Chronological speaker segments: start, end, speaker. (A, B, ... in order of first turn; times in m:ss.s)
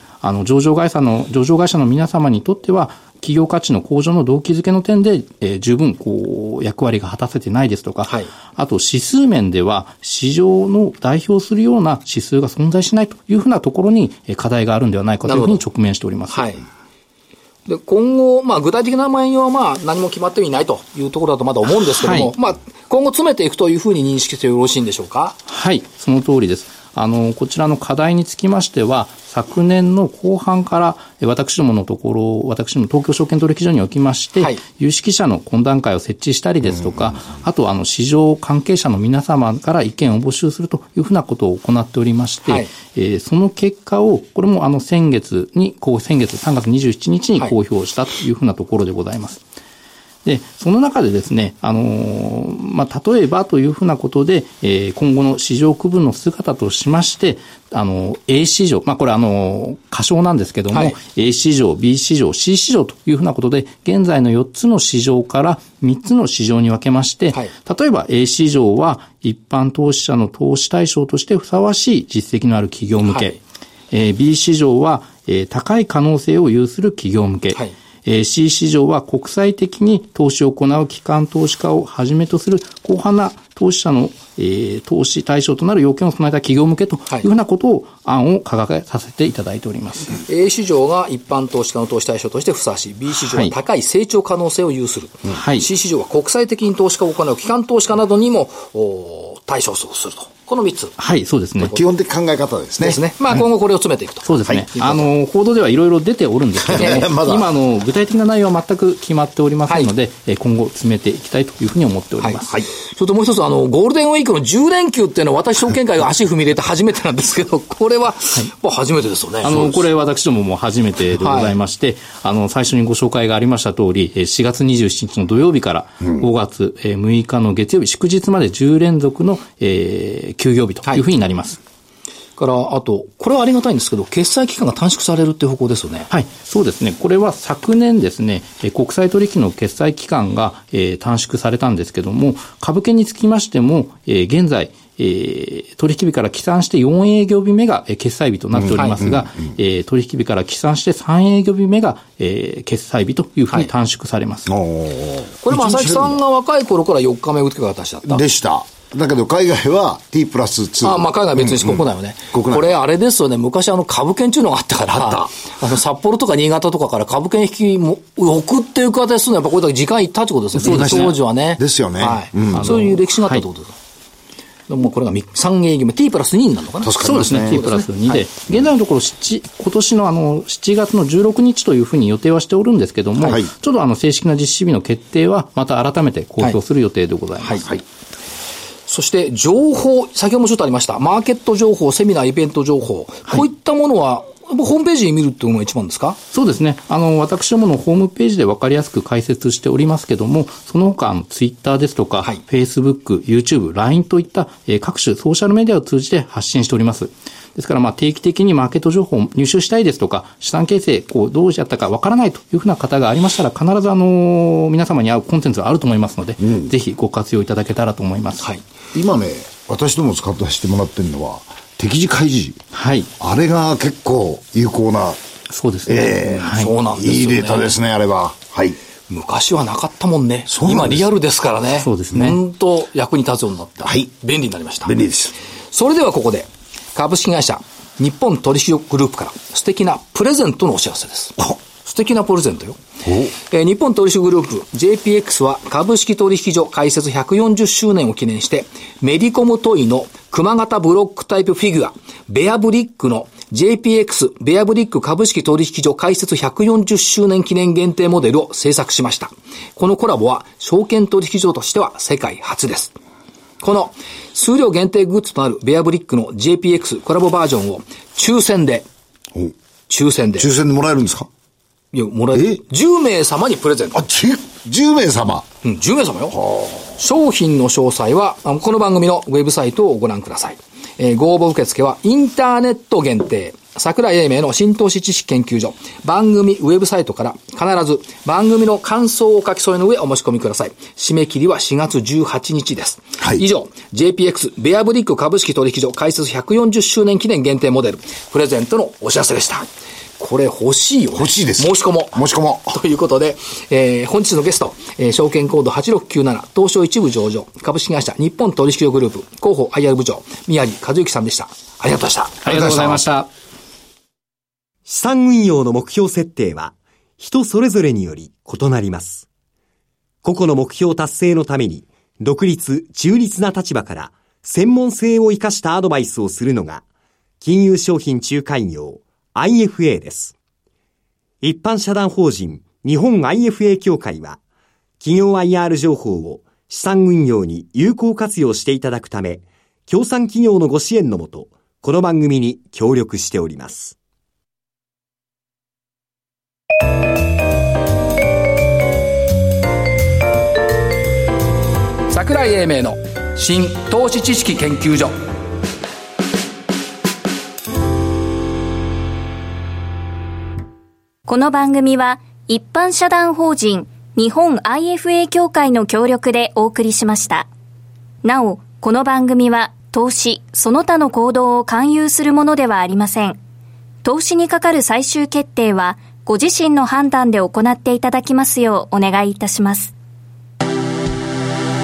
0:00.2-0:16.5 A
0:15.2-0:15.6 B
0:16.3-0:16.6 B
0:17.7-0:25.4 B
0:22.0-0:22.3 A
0:25.5-0:49.4 A
0:50.2-1:13.4 A
1:00.7-1:01.0 B
1:13.1-1:13.4 B
1:13.9-1:30.2 A
1:30.2-1:40.9 B
1:33.2-1:33.5 A
1:35.3-1:35.7 A
1:41.0-1:41.8 A
1:41.6-1:43.0 C
1:42.8-1:45.1 B
1:44.2-1:52.5 A
1:46.6-1:47.5 C
1:46.8-1:47.1 B
1:52.2-1:59.8 B
1:59.4-2:11.6 A
2:01.2-2:01.6 B
2:12.4-2:16.1 B
2:16.1-2:34.5 A
2:28.6-2:29.2 C
2:34.5-2:36.2 C
2:35.4-2:38.2 B
2:38.0-2:41.8 C
2:40.8-2:53.8 B
2:42.3-2:42.7 C
2:44.9-2:45.3 C
2:50.6-2:51.2 A
2:50.6-2:52.8 C
2:52.5-2:53.4 A
2:54.7-2:58.2 B
2:56.8-2:57.6 C
2:57.0-3:07.8 A
3:07.4-3:07.7 B
3:08.9-3:16.2 B
3:16.3-3:38.5 A
3:38.9-3:42.6 C
3:42.7-3:43.1 A
3:43.2-3:45.2 C
3:45.5-3:46.7 A
3:45.8-3:48.8 C
3:46.4-3:47.7 B
3:49.1-3:54.9 B
3:50.5-3:51.1 C
3:51.8-3:52.4 A
3:54.8-3:55.3 C
3:55.7-4:02.8 B
4:03.0-4:03.3 C
4:03.5-4:23.0 B
4:23.6-4:28.8 B
4:29.9-4:30.5 B
4:30.4-4:31.3 C
4:31.9-4:34.0 B
4:32.3-4:32.6 C
4:33.9-4:35.5 C
4:35.6-4:59.7 B
4:36.3-4:36.8 C
5:00.2-5:12.7 B
5:01.2-5:02.8 C
5:12.4-5:13.3 A
5:12.5-5:13.0 C
5:14.8-5:19.2 D
5:20.2-5:26.8 D
5:27.4-5:30.3 D
5:31.4-5:34.4 D
5:35.0-5:44.0 D
5:52.1-5:55.1 B
6:01.3-6:07.5 E
6:08.2-6:13.4 E
6:14.0-6:19.9 E